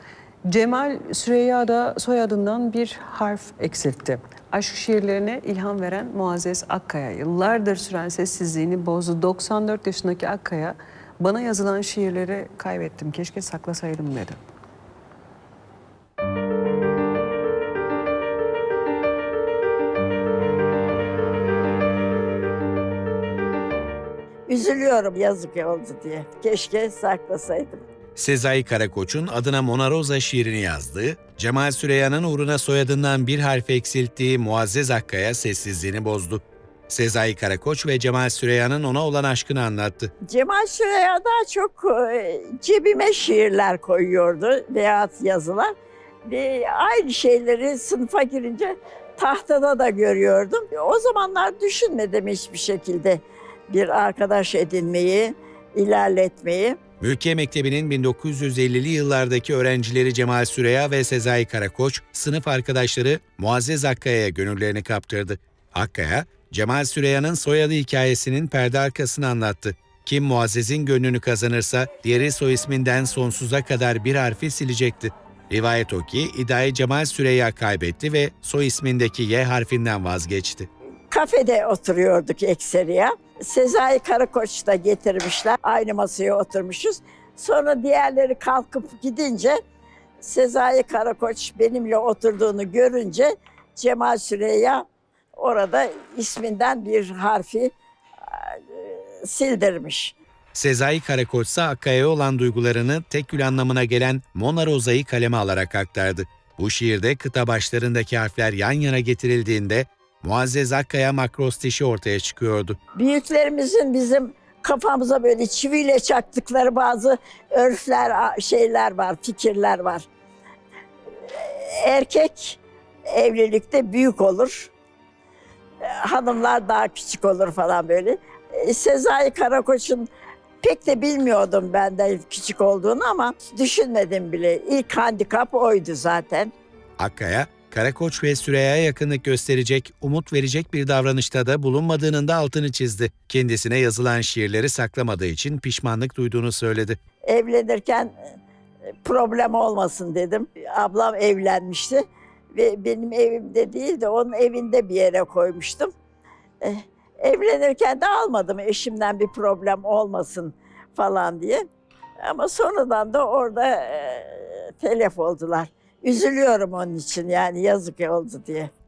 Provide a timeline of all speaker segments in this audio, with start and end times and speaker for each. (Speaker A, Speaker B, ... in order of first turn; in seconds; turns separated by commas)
Speaker A: 0.5-14.4, Speaker B: 24.5-27.7, Speaker C: 28.1-40.1, Speaker B: 40.2-45.7, Speaker B: 46.2-56.8, Speaker C: 57.0-80.7, Speaker B: 81.1-89.6, Speaker B: 90.2-97.7, Speaker B: 98.7-100.1, Speaker C: 100.5-112.8, Speaker B: 113.0-120.0, Speaker B: 121.8-122.5, Speaker B: 123.1-124.6, Speaker B: 126.0-130.1, Speaker B: 130.6-136.5, Speaker C: 137.0-147.0, Speaker B: 147.3-148.1, Speaker B: 149.0-155.9, Speaker B: 156.6-161.6, Speaker B: 162.2-168.7